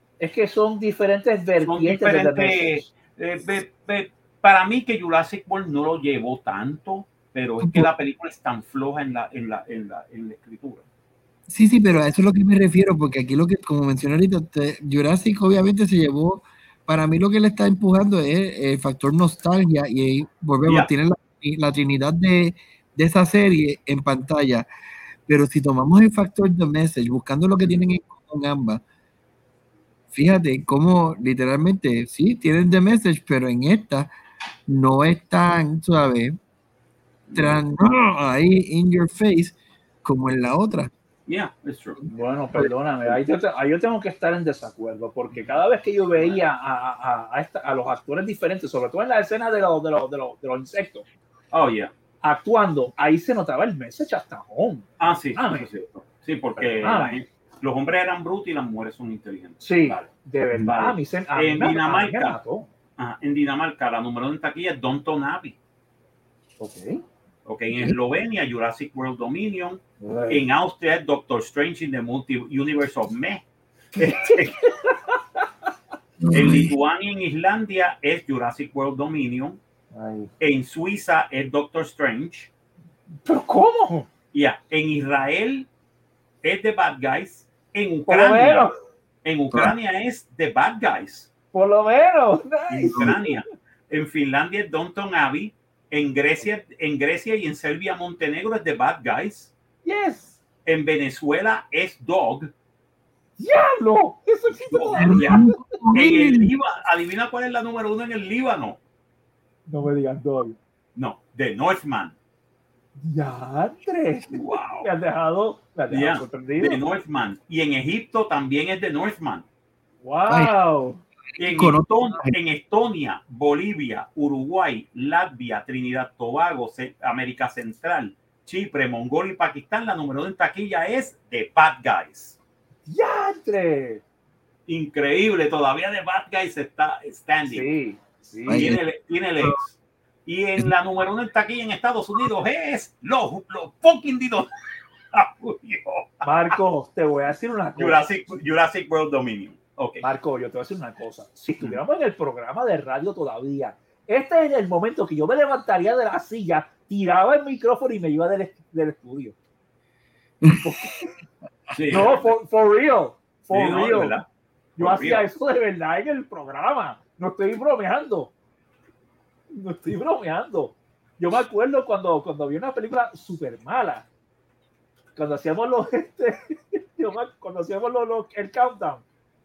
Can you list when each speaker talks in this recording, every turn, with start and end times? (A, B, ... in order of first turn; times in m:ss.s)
0:00.2-0:02.9 A
0:01.6-0:10.8 B
0:07.6-0:07.9 C
0:11.5-0:24.7 C
0:25.3-0:28.8 C
0:30.1-0:34.1 C
0:34.7-0:36.3 C
0:37.3-0:37.6 B
0:37.3-0:40.9 C
0:41.3-0:42.0 B
0:42.1-0:51.0 A
0:51.5-0:51.9 B
0:52.2-0:55.7 A
0:55.0-1:00.1 B
0:56.6-0:57.2 A
0:59.6-1:02.7 A
1:00.6-1:02.4 B
1:03.0-1:05.6 B
1:06.6-1:07.0 A
1:07.4-1:13.4 B
1:10.0-1:10.4 A
1:14.0-1:14.6 B
1:14.0-1:15.4 A
1:16.2-1:16.7 C
1:16.3-1:19.6 B
1:19.9-1:20.3 A
1:20.4-1:22.5 B
1:23.2-1:24.1 A
1:24.3-1:25.7 B
1:26.4-1:28.7 B
1:28.1-1:28.7 A
1:29.2-1:31.3 B
1:31.5-1:33.4 A
1:32.7-1:39.5 B
1:39.8-1:40.4 A
1:40.6-1:42.5 B
1:43.4-1:45.6 A
1:44.7-1:48.8 B
1:45.0-1:46.5 C
1:49.7-1:50.6 A
1:51.0-1:52.1 B
1:53.0-1:56.8 A
1:54.3-1:54.9 B
1:55.9-1:59.4 B
2:00.0-2:01.0 A
2:00.3-2:00.5 C
2:01.3-2:02.3 C
2:01.4-2:12.4 B
2:12.9-2:14.0 A
2:14.7-2:17.7 B
2:17.5-2:18.8 A
2:18.5-2:19.7 B
2:18.5-2:18.8 C
2:20.2-2:24.5 B
2:25.1-2:26.5 B
2:26.2-2:28.0 A
2:27.8-2:30.0 B
2:30.0-2:39.4 A
2:40.4-2:40.6 C
2:40.5-2:41.1 A
2:41.7-2:42.3 B
2:41.9-2:44.1 A
2:43.5-2:44.2 B
2:44.8-2:45.2 B
2:44.8-2:48.3 A
2:49.5-2:54.1 A
2:55.2-2:59.0 A